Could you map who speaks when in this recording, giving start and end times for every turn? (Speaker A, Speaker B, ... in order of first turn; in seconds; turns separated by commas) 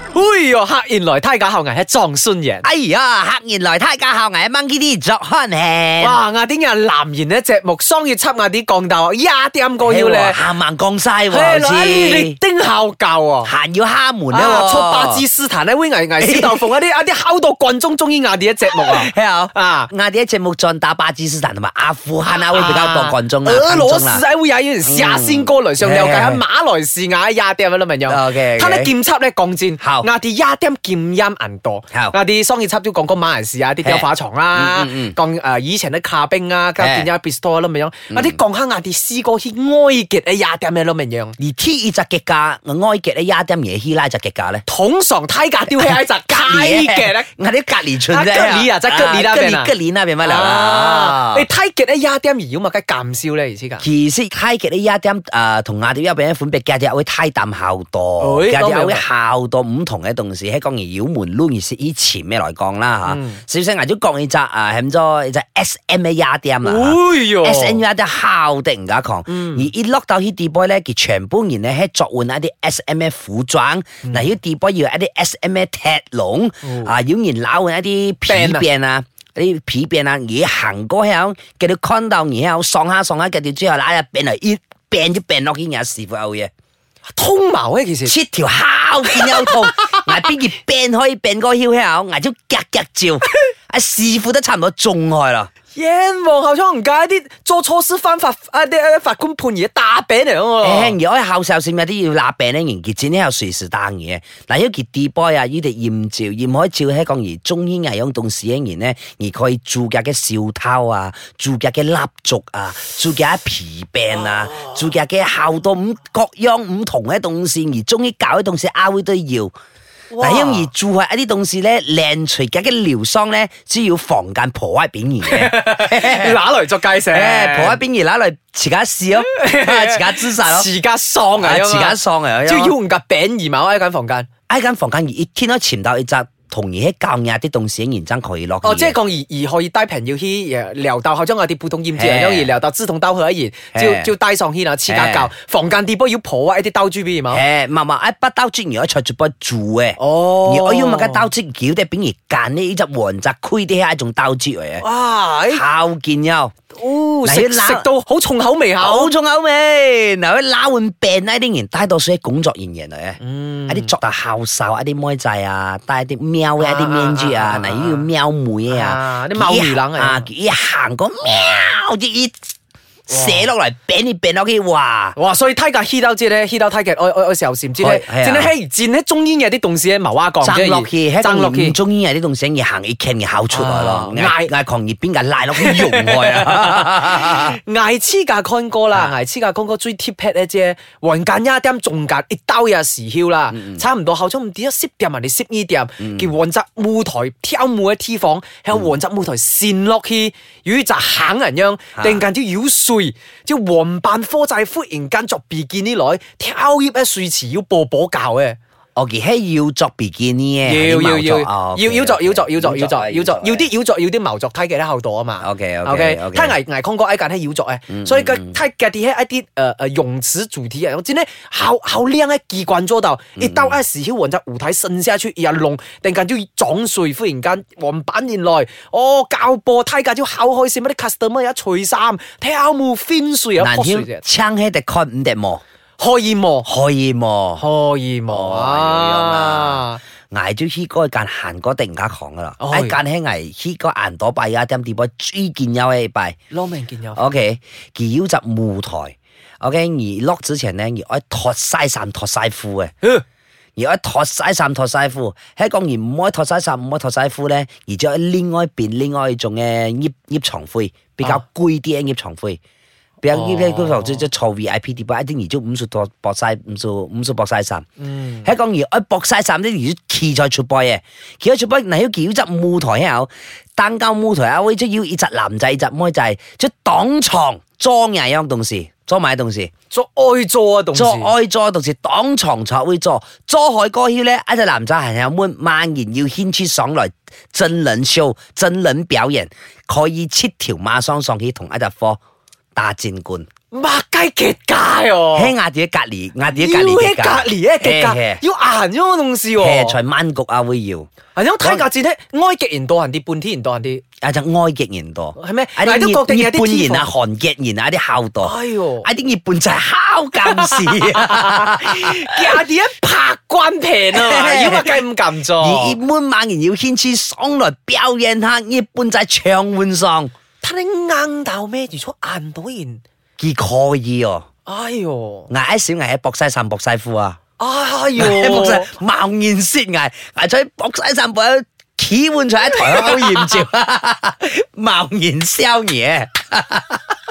Speaker A: 0.1-2.6, Speaker B: 2.6-6.2, Speaker A: 6.0-10.4, Speaker B: 9.8-12.4, Speaker A: 11.3-13.5, Speaker B: 13.4-15.2, Speaker A: 14.3-19.9, Speaker B: 16.2-16.7, Speaker B: 18.7-24.2, Speaker A: 22.3-41.4, Speaker B: 24.8-26.4, Speaker B: 28.1-28.9, Speaker B: 29.8-30.1, Speaker B: 33.8-35.1, Speaker B: 36.8-37.1, Speaker B: 38.1-38.4, Speaker B: 41.4-44.6, Speaker A: 44.7-47.3, Speaker B: 45.7-51.5, Speaker A: 48.1-53.8, Speaker B: 53.8-86.5, Speaker A: 58.2-59.0, Speaker A: 63.0-63.4, Speaker A: 66.6-67.8, Speaker A: 69.3-69.7, Speaker A: 76.6-76.9, Speaker A: 78.3-78.7, Speaker A: 87.1-88.2, Speaker B: 88.0-95.5, Speaker A: 89.1-90.3, Speaker A: 95.7-101.0, Speaker B: 100.6-119.5, Speaker A: 120.1-120.7, Speaker B: 120.2-126.4, Speaker A: 125.2-127.8, Speaker B: 127.1-130.7, Speaker A: 129.2-134.3, Speaker B: 131.4-132.7, Speaker B: 134.5-138.9, Speaker A: 138.6-147.4, Speaker B: 141.9-142.5, Speaker B: 143.7-144.1, Speaker B: 144.9-145.3, Speaker B: 147.3-154.8, Speaker A: 150.0-151.3, Speaker A: 154.8-155.6, Speaker B: 155.5-156.5, Speaker A: 156.7-159.1, Speaker B: 157.2-157.9, Speaker B: 158.8-172.4, Speaker A: 163.2-163.9, Speaker A: 166.6-168.0, Speaker A: 168.7-170.2, Speaker B: 173.1-175.2, Speaker A: 173.1-173.5, Speaker A: 175.2-181.8, Speaker B: 177.8-178.5, Speaker B: 180.4-187.6, Speaker A: 183.5-184.5, Speaker A: 185.5-208.6, Speaker B: 193.5-193.8, Speaker B: 196.0-196.3, Speaker B: 202.0-202.2, Speaker B: 208.9-213.7, Speaker A: 210.6-234.2, Speaker B: 215.4-216.6, Speaker B: 217.9-218.6, Speaker B: 223.4-223.8, Speaker B: 233.6-235.6, Speaker A: 236.0-236.7, Speaker B: 236.7-237.6, Speaker A: 237.6-240.0, Speaker B: 238.3-246.3, Speaker A: 242.6-243.0, Speaker A: 246.5-247.2, Speaker B: 247.2-252.9, Speaker B: 253.8-262.6, Speaker B: 263.2-267.9, Speaker A: 263.3-264.2, Speaker A: 268.0-268.5, Speaker B: 268.4-279.7, Speaker A: 279.9-281.3, Speaker B: 280.9-292.2, Speaker B: 292.8-293.5, Speaker A: 293.7-295.5, Speaker B: 295.3-298.4, Speaker A: 296.5-300.0, Speaker B: 299.6-301.1, Speaker A: 301.3-304.0, Speaker B: 304.2-312.6, Speaker A: 305.4-307.1, Speaker A: 308.4-309.1, Speaker A: 310.4-316.0, Speaker B: 314.1-315.0, Speaker B: 315.6-320.3, Speaker A: 320.6-323.0, Speaker B: 323.4-324.4, Speaker A: 324.6-325.5, Speaker B: 325.5-327.4, Speaker A: 327.6-328.9, Speaker B: 328.2-337.0, Speaker A: 332.8-333.6